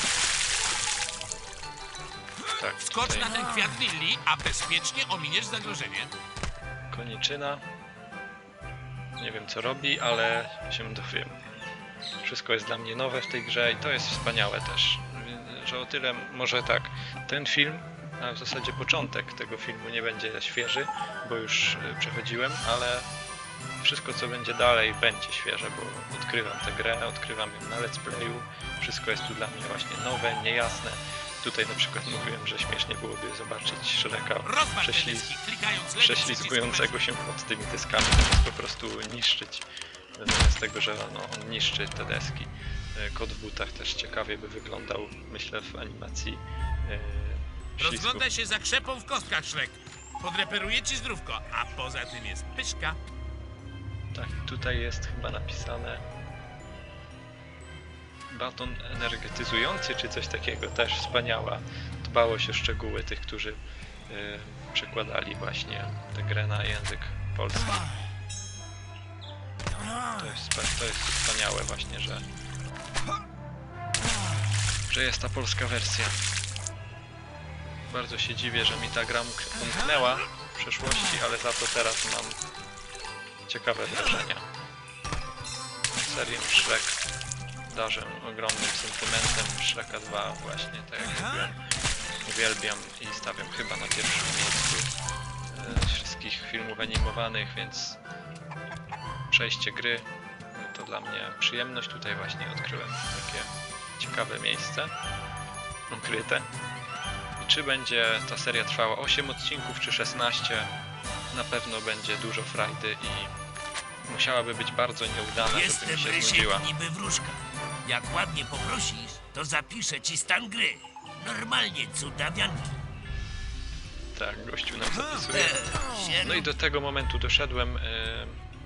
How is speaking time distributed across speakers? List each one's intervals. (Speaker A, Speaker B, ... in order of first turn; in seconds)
Speaker A: 2.6-3.3, 6.9-7.6, 9.2-11.4, 12.2-23.1, 23.8-35.4, 36.0-39.6, 40.2-48.3, 54.1-56.0, 58.3-67.8, 70.1-72.2, 74.9-76.2, 77.9-82.4, 83.5-84.5, 85.9-87.0, 87.7-91.6, 92.2-94.9, 95.5-98.0, 99.3-104.9, 105.9-106.5, 107.4-110.7, 111.3-113.3, 114.0-116.6, 124.1-125.6, 126.2-128.4
Speaker B: 2.8-6.1, 34.4-37.0, 47.8-53.0
Speaker C: 115.4-122.7, 125.3-126.5